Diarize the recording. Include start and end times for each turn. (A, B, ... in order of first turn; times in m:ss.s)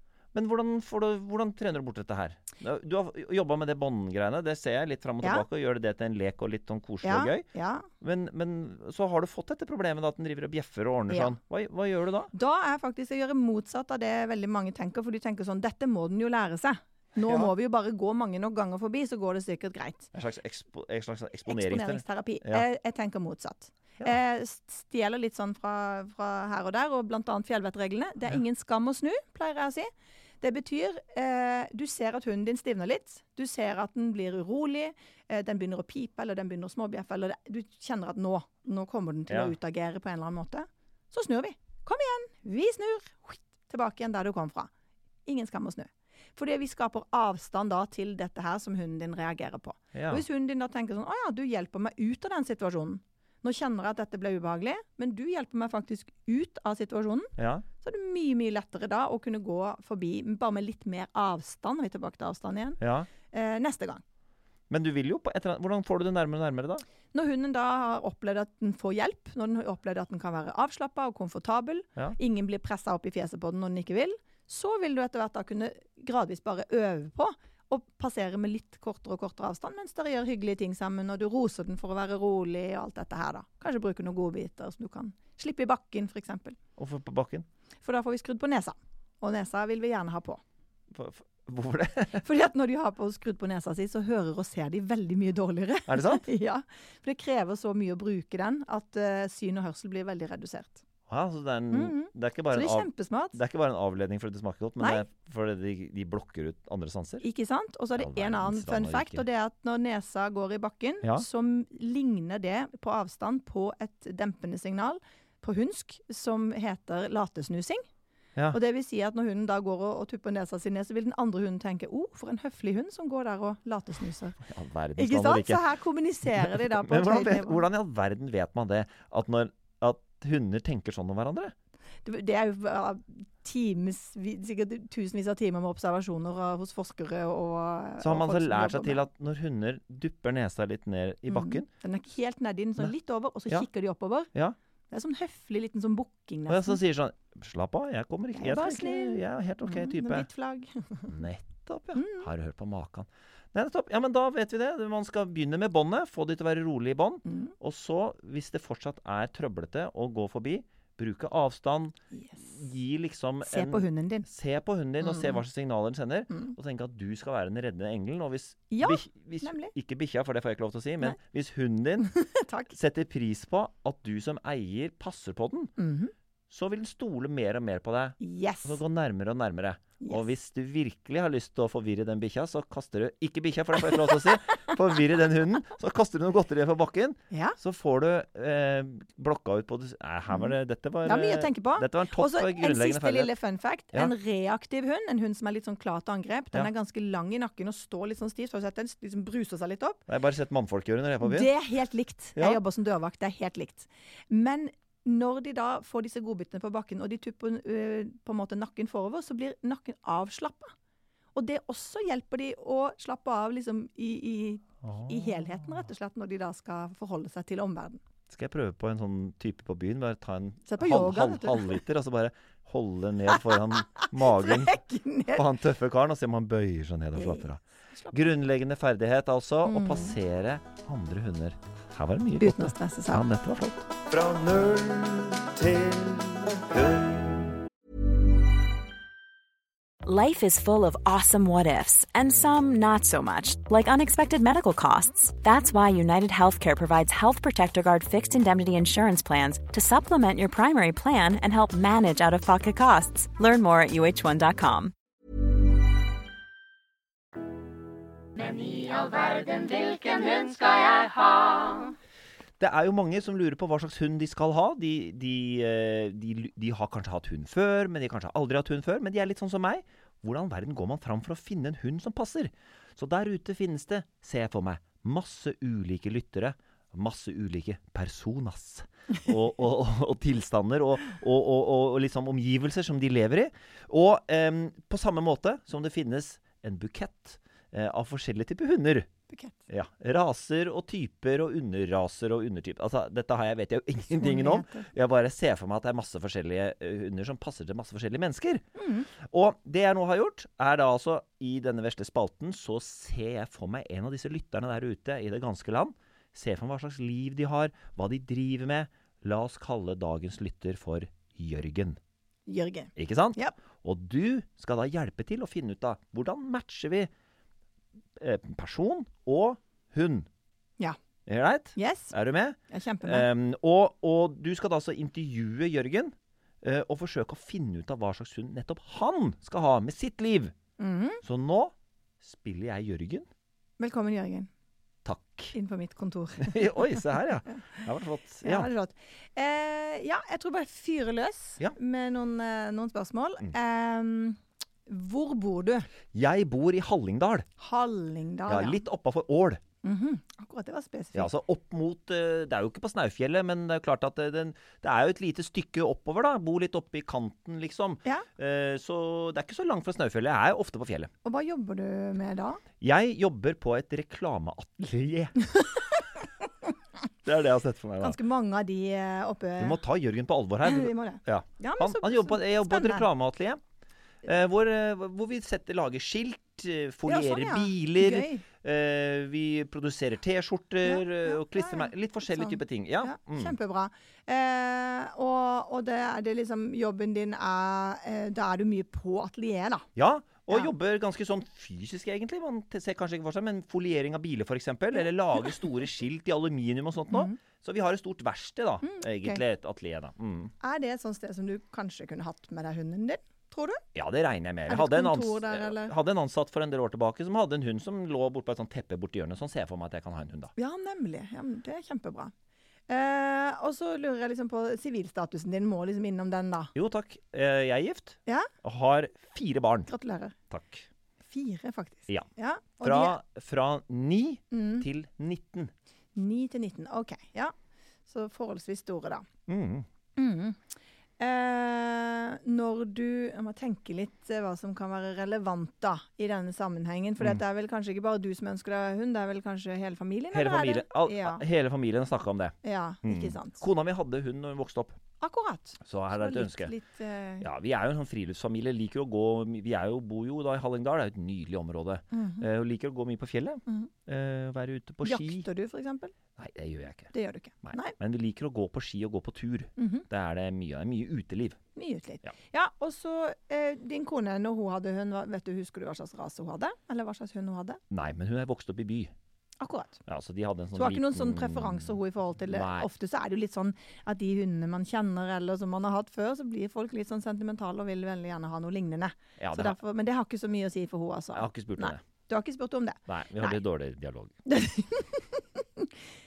0:00.3-0:07.4 A
0:07.0-0:07.9 B
0:08.0-0:12.3 A
0:11.1-0:11.4 B
0:12.3-0:20.1 B
0:17.2-0:17.5 A
0:20.1-0:22.6 A
0:21.5-0:29.9 B
0:30.4-0:44.7 B
0:39.3-0:39.5 A
0:45.2-1:04.0 B
0:49.9-0:50.2 A
0:57.4-0:57.6 A
1:02.8-1:03.1 A
1:04.7-1:06.8 A
1:07.1-1:26.6 B
1:26.8-1:27.4 A
1:27.8-1:30.4 B
1:30.9-1:32.2 A
1:32.2-1:40.8 B
1:35.9-1:36.2 A
1:41.1-1:47.2 A
1:41.7-1:43.4 B
1:44.8-1:45.0 B
1:47.2-1:57.8 B
1:48.0-1:49.2 A
1:58.5-2:04.4 B
2:04.4-2:05.6 A
2:05.0-2:07.6 B
2:06.2-2:11.5 A
2:12.0-2:19.0 B
2:18.0-2:21.7 A
2:21.3-2:24.3 B
2:24.9-2:26.8 B
2:26.5-2:30.3 A
2:28.3-2:31.1 B
2:31.1-2:52.1 A
2:31.9-2:32.3 B
2:37.2-2:37.5 B
2:42.1-2:42.5 B
2:43.4-2:44.3 B
2:45.0-2:45.4 B
2:48.7-2:49.7 B
2:52.1-2:52.7 B
2:52.7-2:55.7 A
2:55.8-2:56.1 B
2:56.5-3:13.3 A
2:58.2-2:58.8 B
3:07.3-3:07.6 B
3:11.0-3:20.0 B
3:20.1-3:21.5 A
3:21.2-3:30.7 B
3:22.4-3:22.6 A
3:31.3-3:38.0 B
3:34.8-3:35.7 A
3:38.3-3:44.8 A
3:40.7-3:41.8 B
3:43.3-3:45.5 B
3:45.3-3:47.6 A
3:47.1-3:48.2 B
3:48.1-3:57.3 A
3:49.6-3:50.2 B
3:52.4-3:53.2 B
4:00.0-4:14.9 C
4:18.4-4:21.9 C
4:22.6-4:49.1 A
4:49.3-4:49.6 B
4:49.7-4:58.6 A
4:54.2-4:54.9 B
4:58.8-4:59.1 B
4:59.2-5:12.0 A
5:12.5-5:13.5 B
5:13.0-5:17.1 A
5:18.2-5:20.3 A
5:21.2-5:30.5 A
5:21.8-5:22.1 B
5:22.7-5:23.3 B
5:30.8-5:31.2 B
5:31.2-5:33.3 A
5:33.8-5:34.5 B
5:35.0-5:35.5 A
5:35.5-5:37.8 B
5:36.4-5:38.7 A
5:38.4-5:45.9 B
5:46.1-5:47.5 A
5:47.6-5:48.8 B
5:48.5-5:49.6 A
5:49.8-5:51.3 B
5:51.1-6:01.1 A
6:01.2-6:02.6 B
6:02.8-6:05.4 A
6:05.5-6:05.8 B
6:07.2-6:08.2 A
6:08.0-6:09.8 B
6:09.6-6:13.6 A
6:10.6-6:13.1 B
6:14.2-6:23.6 A
6:17.0-6:18.4 B
6:20.8-6:29.9 B
6:30.0-6:40.5 A
6:37.1-6:37.4 B
6:38.8-6:39.4 B
6:40.6-6:43.8 B
6:43.9-6:50.5 A
6:44.7-6:45.9 B
6:50.6-6:52.3 B
6:52.9-6:56.7 B
6:56.7-6:59.9 A
6:59.9-7:00.4 B
7:00.5-7:00.9 A
7:01.3-7:03.2 B
7:02.8-7:05.7 A
7:04.5-7:04.8 B
7:06.1-7:07.5 B
7:08.1-7:09.3 B
7:09.5-7:09.8 A
7:10.2-7:10.6 B
7:11.2-7:21.4 B
7:20.3-7:25.0 A
7:22.6-7:23.6 B
7:25.2-7:27.5 B
7:25.8-7:26.7 A
7:27.4-7:35.4 A
7:32.1-7:32.4 B
7:35.0-7:36.2 B
7:36.4-7:37.1 A
7:37.1-7:38.0 B
7:37.6-7:41.6 A
7:39.8-7:40.1 B
7:41.8-7:47.8 B
7:47.9-7:49.1 A
7:49.6-7:50.0 B
7:50.1-7:51.9 A
7:50.7-8:03.6 B
7:52.5-7:52.9 A
7:59.4-7:59.8 A
8:01.3-8:02.0 A
8:03.1-8:04.4 A
8:04.4-8:05.9 B